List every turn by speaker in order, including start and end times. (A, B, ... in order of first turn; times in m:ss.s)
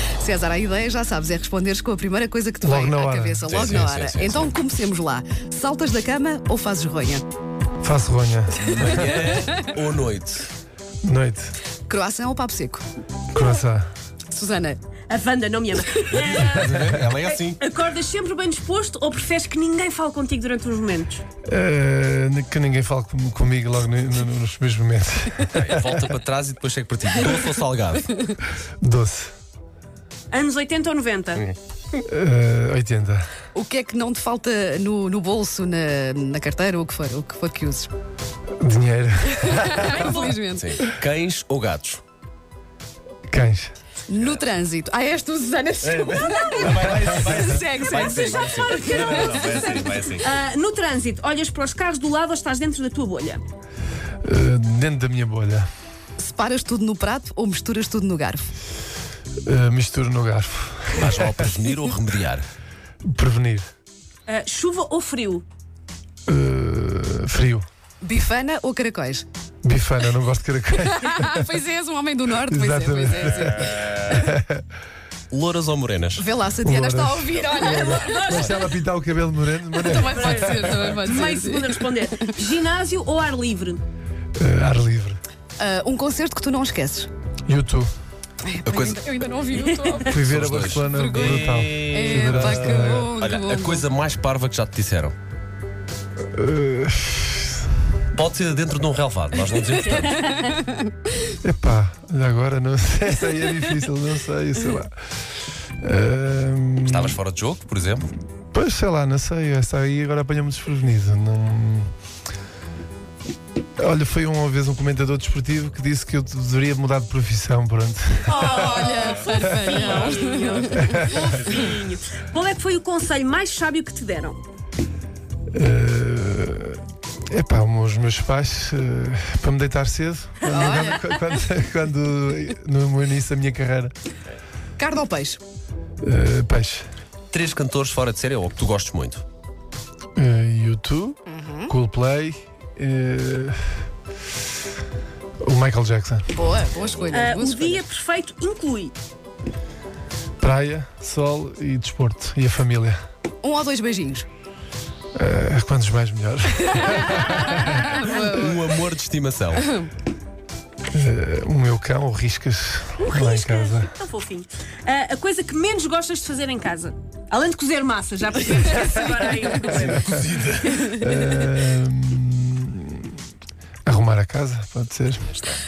0:00.2-0:07.2 A
0:02.6-0:03.6 B
0:03.5-0:04.5 C
0:07.8-0:09.2 B
0:08.6-0:10.5 C
0:11.0-0:11.5 B
0:11.9-0:12.8 A
0:13.3-0:13.9 B
0:14.3-0:14.8 A
0:15.1-0:21.2 D
0:16.1-0:17.6 C
0:21.4-0:26.0 B
0:25.5-0:28.4 C
0:28.8-0:29.3 B
0:30.3-0:31.5 D
0:32.0-0:33.3 B
0:33.5-0:37.9 A
0:38.6-0:40.1 B
0:39.3-0:40.8 A
0:40.1-0:42.0 C
0:43.3-0:43.7 B
0:44.1-0:49.8 A
0:45.8-0:50.3 C
0:47.7-0:53.4 D
0:54.2-0:55.7 B
0:56.2-0:58.5 A
0:59.4-1:01.5 B
1:00.9-1:02.4 C
1:03.0-1:03.7 B
1:04.3-1:05.4 D
1:06.3-1:07.6 B
1:08.0-1:09.2 A
1:09.6-1:11.4 B
1:10.8-1:14.2 A
1:12.5-1:14.6 B
1:15.3-1:16.2 C
1:16.2-1:18.3 A
1:16.6-1:20.9 B
1:17.4-1:18.7 D
1:19.7-1:22.2 A
1:20.1-1:23.8 D
1:24.4-1:25.2 B
1:25.6-1:27.1 A
1:27.4-1:27.9 B
1:28.4-1:30.1 A
1:28.6-1:29.0 C
1:29.7-1:30.0 D
1:30.0-1:33.1 B
1:30.0-1:35.1 C
1:30.8-1:33.9 A
1:36.3-1:37.6 B
1:38.1-1:40.4 C
1:39.6-1:40.5 D
1:41.2-1:45.0 B
1:45.8-1:47.2 B
1:46.8-1:48.1 C
1:48.5-1:51.9 B
1:53.8-1:58.7 B
1:58.3-2:04.4 D
1:58.3-2:01.5 A
2:00.8-2:01.2 B
2:05.5-2:13.9 B
2:10.4-2:11.0 A
2:14.8-2:15.4 A
2:16.0-2:16.8 B
2:17.3-2:19.2 C
2:20.1-2:23.6 B
2:21.3-2:21.7 A
2:25.4-2:26.3 B
2:26.3-2:27.8 A
2:27.1-2:28.9 D
2:30.4-2:33.0 B
2:33.4-2:34.3 A
2:35.1-2:38.1 B
2:37.9-2:39.8 C
2:37.9-2:38.4 A
2:40.9-2:43.9 B
2:43.0-2:50.0 D
2:49.6-2:50.9 C
2:50.9-2:53.2 B
2:53.8-2:55.3 B